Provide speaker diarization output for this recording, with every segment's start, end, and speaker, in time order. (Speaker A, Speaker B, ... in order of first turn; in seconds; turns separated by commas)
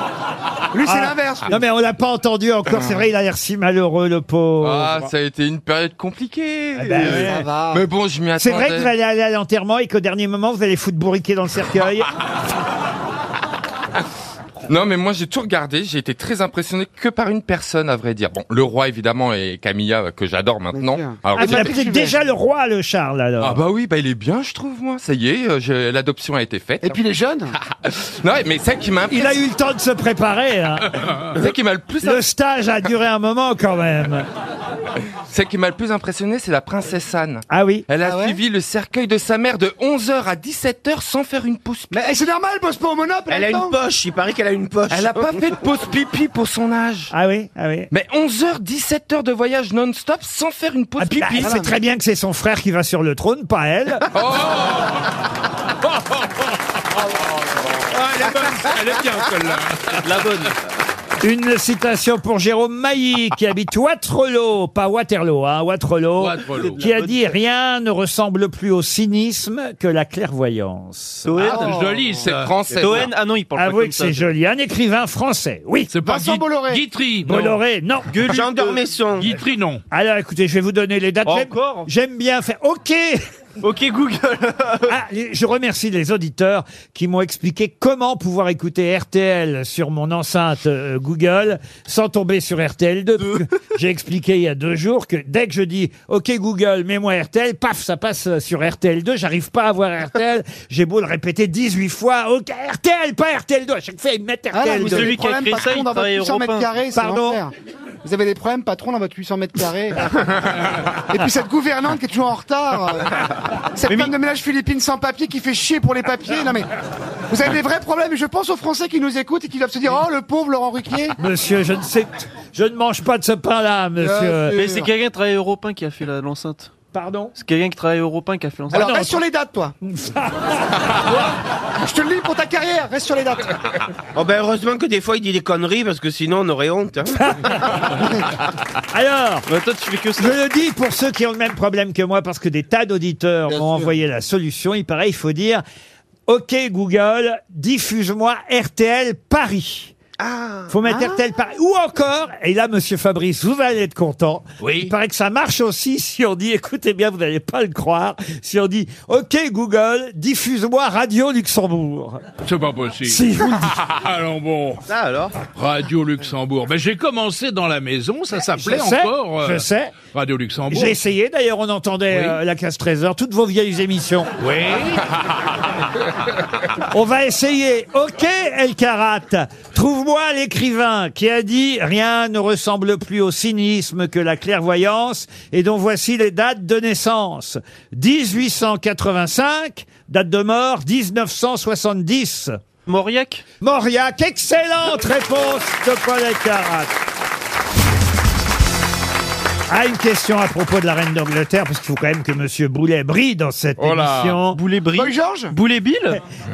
Speaker A: 0.7-1.6, Speaker B: 0.9-5.1, Speaker C: 4.6-8.9, Speaker B: 6.8-7.4, Speaker A: 6.9-7.8, Speaker B: 8.4-12.1, Speaker C: 14.7-21.8, Speaker A: 20.7-22.2, Speaker B: 21.4-23.6, Speaker C: 23.4-27.0, Speaker A: 26.8-27.5, Speaker C: 27.8-29.4, Speaker B: 29.1-30.9, Speaker C: 31.3-32.2, Speaker B: 32.0-34.3, Speaker C: 35.3-42.0, Speaker B: 37.5-37.9, Speaker A: 38.0-38.4, Speaker A: 41.9-43.8, Speaker D: 43.3-45.4, Speaker C: 44.9-47.1, Speaker B: 47.1-47.9, Speaker C: 47.9-51.6, Speaker B: 51.0-54.1, Speaker A: 51.4-51.7, Speaker C: 54.1-54.9, Speaker E: 57.9-60.0, Speaker F: 60.0-60.5, Speaker B: 61.2-71.3, Speaker E: 66.2-66.9, Speaker F: 71.2-71.8, Speaker A: 71.4-72.2, Speaker E: 71.5-72.5, Speaker C: 72.2-73.1, Speaker F: 72.8-74.2, Speaker B: 73.6-75.9, Speaker E: 75.9-77.5, Speaker A: 76.0-76.9, Speaker B: 77.2-78.2, Speaker F: 78.1-78.9, Speaker D: 78.3-79.4, Speaker E: 79.2-79.8, Speaker B: 79.9-83.2, Speaker F: 81.2-81.9, Speaker F: 83.6-85.0, Speaker B: 84.9-105.1, Speaker A: 104.5-110.4, Speaker F: 104.8-106.7, Speaker B: 106.9-107.4, Speaker A: 111.1-113.1, Speaker A: 113.7-116.7, Speaker F: 113.9-114.1, Speaker A: 117.3-121.2, Speaker B: 121.2-124.6, Speaker A: 124.0-124.9, Speaker F: 124.5-126.7, Speaker B: 126.9-127.3, Speaker F: 127.3-129.0, Speaker A: 128.7-129.8, Speaker B: 128.8-129.2, Speaker B: 129.8-130.8, Speaker A: 131.8-133.5, Speaker D: 134.2-137.6, Speaker B: 137.2-137.6, Speaker B: 138.9-139.5, Speaker F: 139.5-140.4, Speaker B: 140.2-145.6, Speaker A: 143.5-143.9, Speaker B: 146.3-149.9, Speaker D: 150.2-150.8, Speaker B: 150.7-162.2, Speaker A: 150.9-151.2, Speaker E: 154.6-154.9, Speaker E: 162.4-164.8, Speaker B: 163.1-163.7, Speaker D: 164.9-165.4, Speaker E: 165.6-171.0, Speaker B: 168.6-170.0, Speaker B: 170.7-174.3, Speaker E: 174.4-175.0, Speaker B: 176.9-192.6, Speaker F: 192.9-193.4, Speaker B: 193.6-196.9, Speaker B: 199.7-204.6, Speaker C: 203.8-204.1, Speaker F: 204.5-206.2, Speaker A: 204.9-205.5